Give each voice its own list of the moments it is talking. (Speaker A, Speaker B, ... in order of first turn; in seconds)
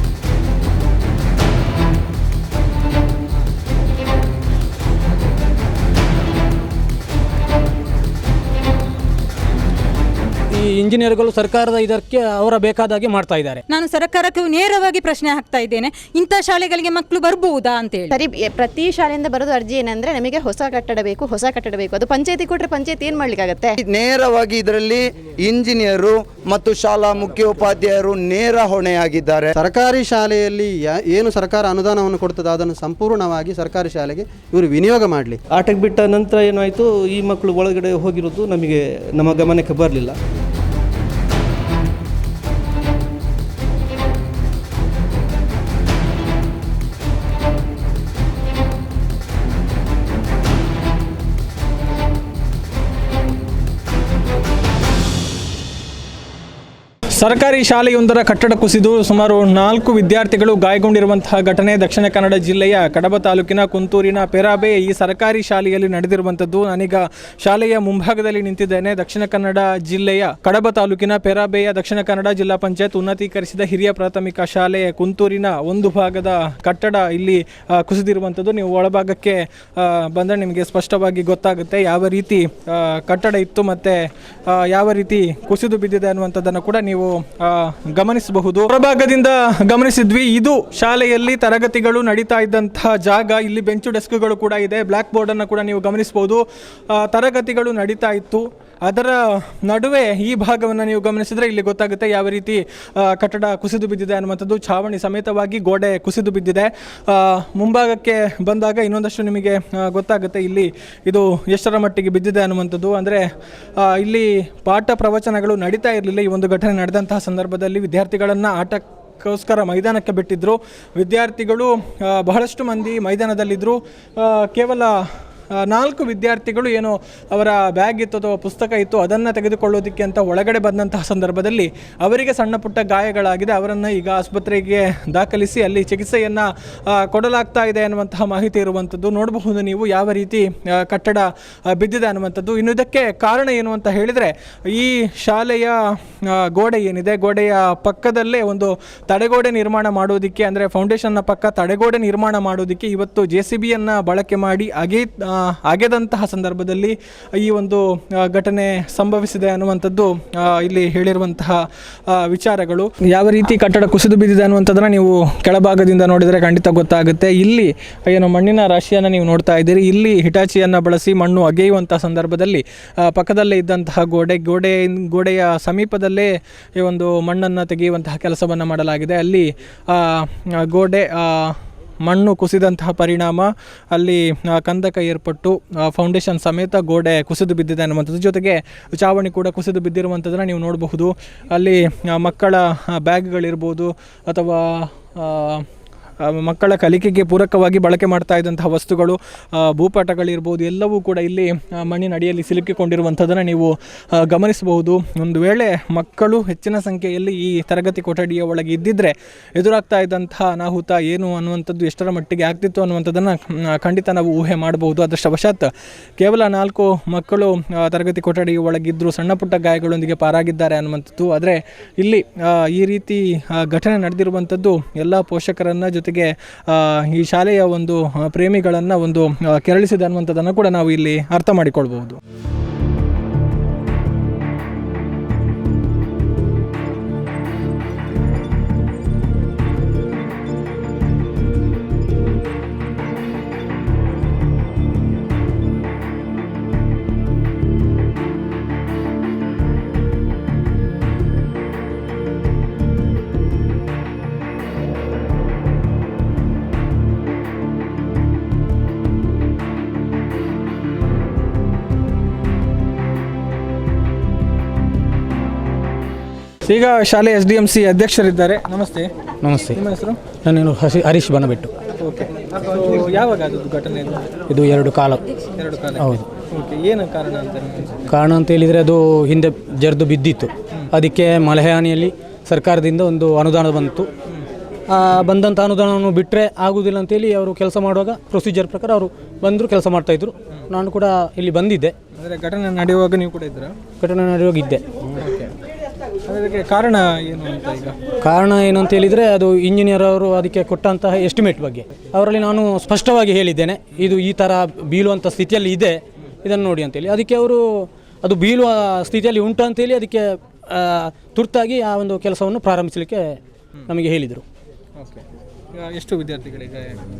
Speaker A: 10.5-13.6, 269.4-269.8, 270.4-271.7, 274.5-275.2, 276.0-276.2, 278.1-284.1, 284.9-291.9, 294.0-295.0, 298.2-314.4
Speaker B: 13.7-18.2
Speaker C: 18.1-23.7
Speaker D: 23.8-29.5
Speaker E: 29.6-35.4
Speaker F: 35.5-40.2
Speaker G: 57.1-113.2, 113.8-125.0, 125.5-195.6, 196.2-232.2, 266.7-269.1, 269.7-270.2, 272.0-274.3, 275.6-278.1, 292.2-293.7, 295.2-295.5, 296.2-298.0, 315.8-317.0